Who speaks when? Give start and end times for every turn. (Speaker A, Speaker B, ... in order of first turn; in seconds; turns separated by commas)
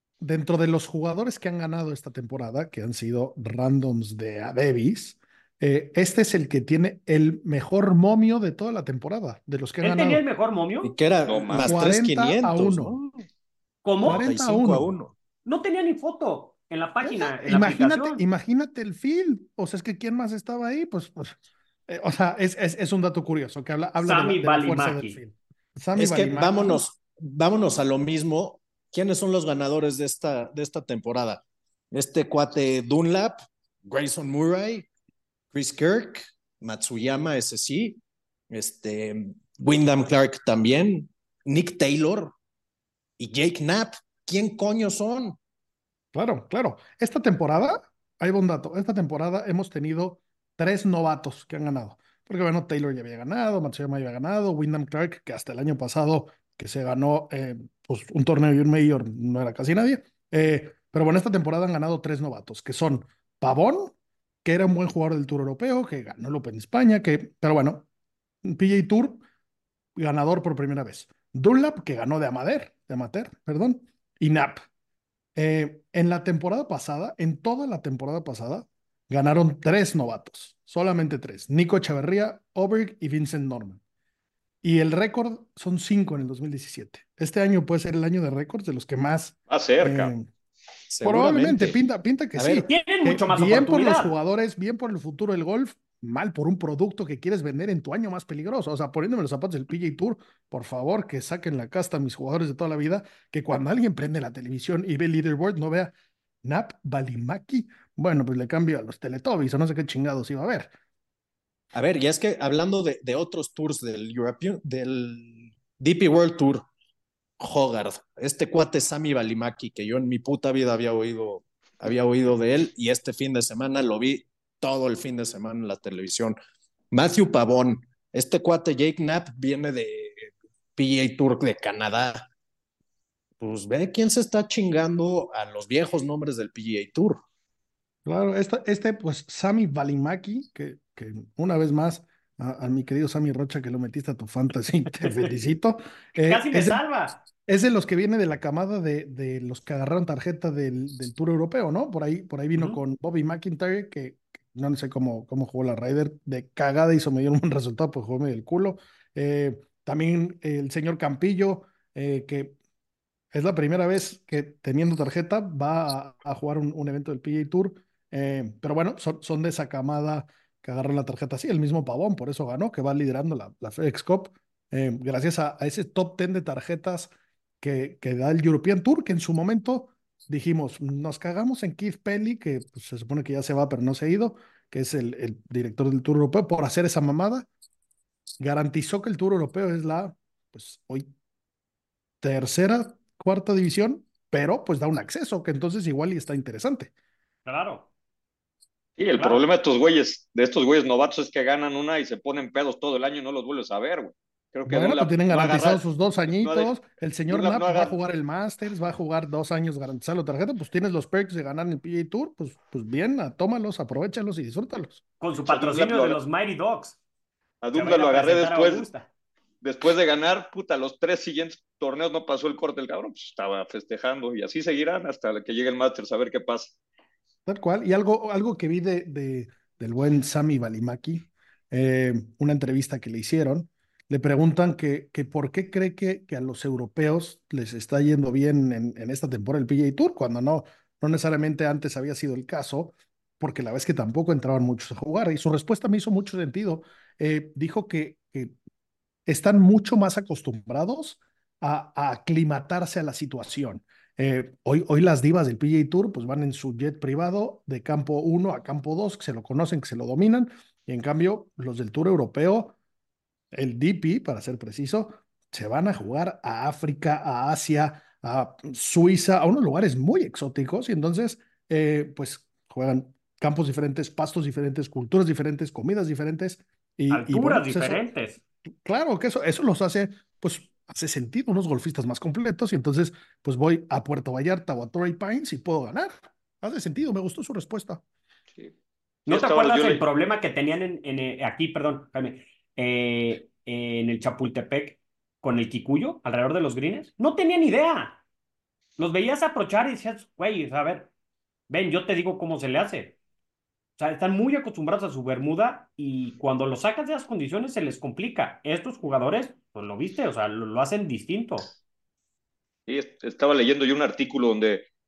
Speaker A: 0.2-10.2, Speaker B: 9.8-10.9, Speaker C: 10.8-13.2, Speaker D: 11.2-11.8, Speaker A: 11.6-13.0, Speaker B: 13.8-14.3, Speaker C: 14.0-15.1, Speaker A: 14.0-14.9, Speaker B: 15.4-18.2, Speaker A: 17.0-26.8, Speaker B: 24.0-25.2, Speaker C: 25.9-34.9, Speaker C: 35.5-38.0, Speaker C: 38.5-42.3, Speaker C: 43.2-45.4, Speaker A: 46.1-67.8, Speaker A: 68.4-69.2, Speaker A: 70.0-74.6, Speaker A: 75.3-83.8, Speaker A: 84.6-90.3, Speaker D: 89.5-90.1, Speaker C: 90.9-91.8, Speaker A: 91.0-105.9, Speaker C: 92.3-92.7, Speaker B: 92.7-94.1, Speaker A: 106.4-110.7, Speaker C: 111.7-116.6, Speaker C: 117.4-126.4, Speaker C: 126.9-132.3, Speaker C: 133.4-137.2, Speaker A: 138.0-146.8, Speaker B: 145.0-145.3, Speaker B: 146.2-147.2, Speaker A: 147.4-162.5, Speaker B: 152.5-152.8, Speaker A: 163.3-187.5, Speaker A: 188.4-191.1, Speaker A: 192.2-196.9, Speaker B: 197.4-197.9, Speaker D: 199.0-206.7, Speaker B: 199.2-199.4, Speaker A: 204.7-215.0, Speaker D: 207.3-207.9, Speaker B: 215.2-217.0, Speaker D: 215.5-216.2, Speaker D: 217.6-218.9, Speaker B: 217.7-219.1, Speaker D: 219.6-226.7, Speaker A: 227.4-248.6, Speaker A: 249.3-262.7, Speaker A: 263.5-278.0, Speaker B: 277.1-278.4, Speaker A: 278.8-288.0, Speaker D: 289.3-290.0, Speaker B: 289.3-298.2, Speaker B: 299.0-301.1, Speaker B: 301.7-303.1, Speaker B: 304.0-311.7, Speaker D: 312.9-314.9